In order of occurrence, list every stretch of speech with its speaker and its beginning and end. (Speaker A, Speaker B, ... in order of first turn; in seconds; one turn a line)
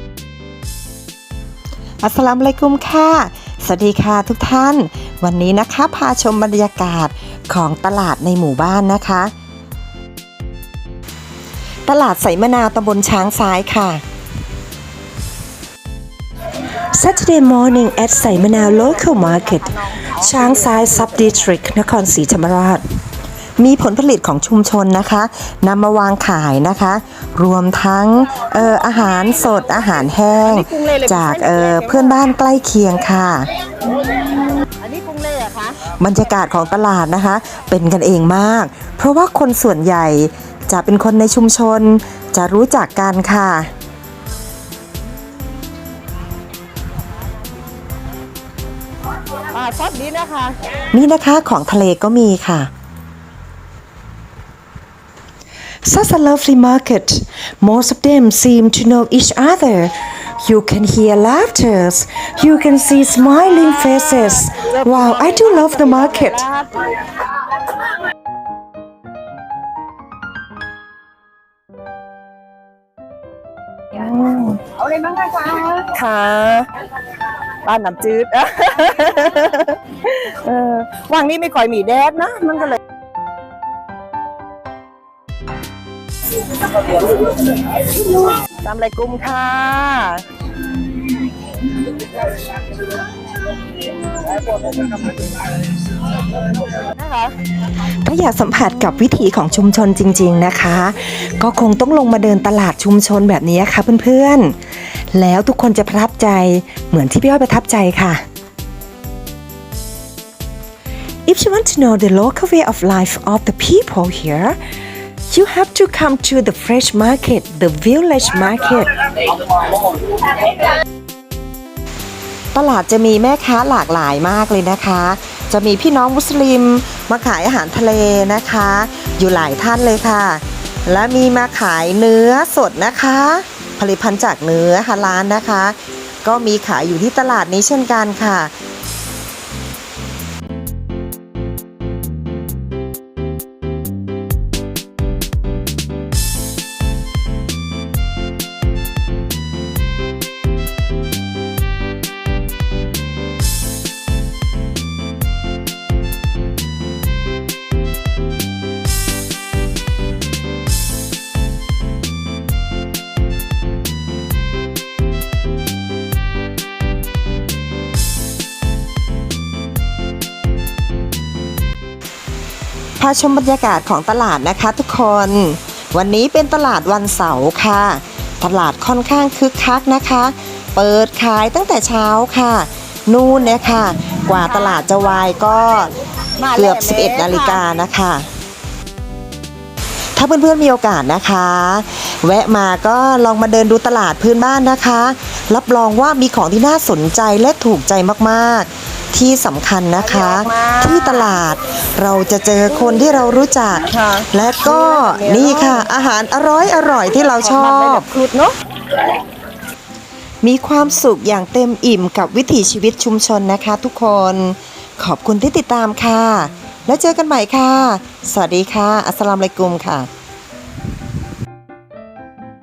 Speaker A: 2.0-9.3
Speaker A: 11.8-14.0
Speaker A: 16.8-22.8
Speaker B: 18.4-21.4
Speaker A: 23.6-33.5
Speaker B: 30.4-32.2
Speaker B: 34.8-35.9
Speaker A: 35.9-43.7
Speaker B: 49.3-50.6
Speaker A: 50.9-52.7
Speaker A: 55.8-66.4
Speaker B: 63.6-67.3
Speaker B: 73.9-82.8
Speaker B: 86.7-90.3
Speaker B: 94.2-95.5
Speaker B: 96.7-97.4
Speaker A: 98.0-108.2
Speaker A: 111.2-114.6
Speaker A: 115.3-119.3
Speaker A: 122.5-138.5
Speaker A: 173.0-185.9
Speaker B: 186.4-187.6
Speaker A: 186.5-188.3
Speaker A: 190.1-208.0
Speaker B: 200.0-201.3
Speaker B: 203.9-205.8
Speaker B: 207.4-208.6
Speaker A: 210.4-220.1